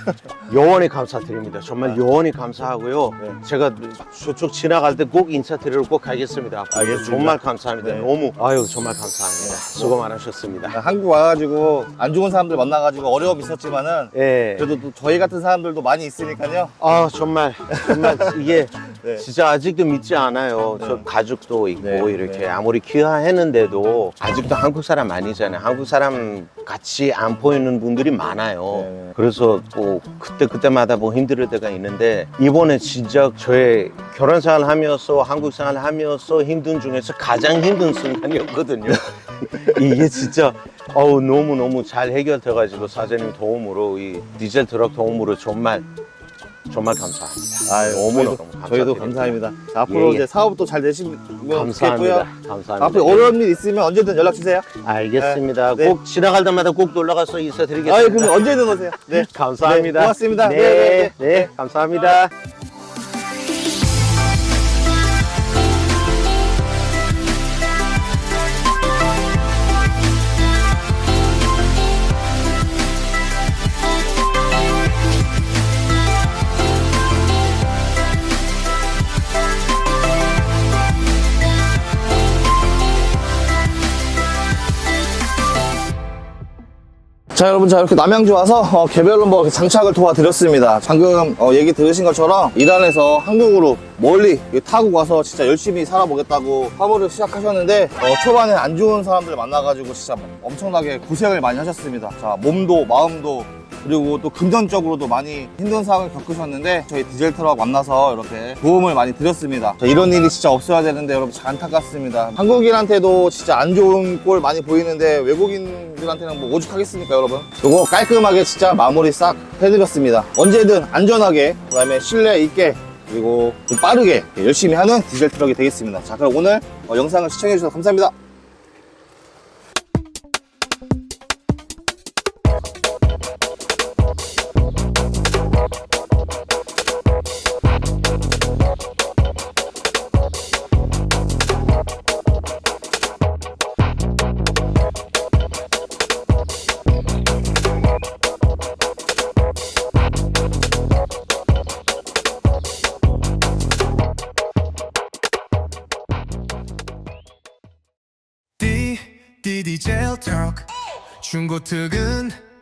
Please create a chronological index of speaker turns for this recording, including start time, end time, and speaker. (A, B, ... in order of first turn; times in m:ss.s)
0:00.5-0:10.8 A
0:06.7-0:08.1 B
0:09.4-0:10.0 B
0:10.7-0:16.8 B
0:14.1-0:14.7 A
0:16.8-0:45.9 A
0:17.7-0:19.2 B
0:21.8-0:22.4 B
0:28.7-0:29.1 B
0:46.7-0:50.3 A
0:47.6-0:52.3 B
0:51.5-0:53.4 A
0:52.8-0:56.0 B
0:54.8-0:58.5 A
0:57.8-1:01.5 B
0:59.1-1:02.3 A
1:27.3-2:08.1 B
2:38.6-2:42.4 C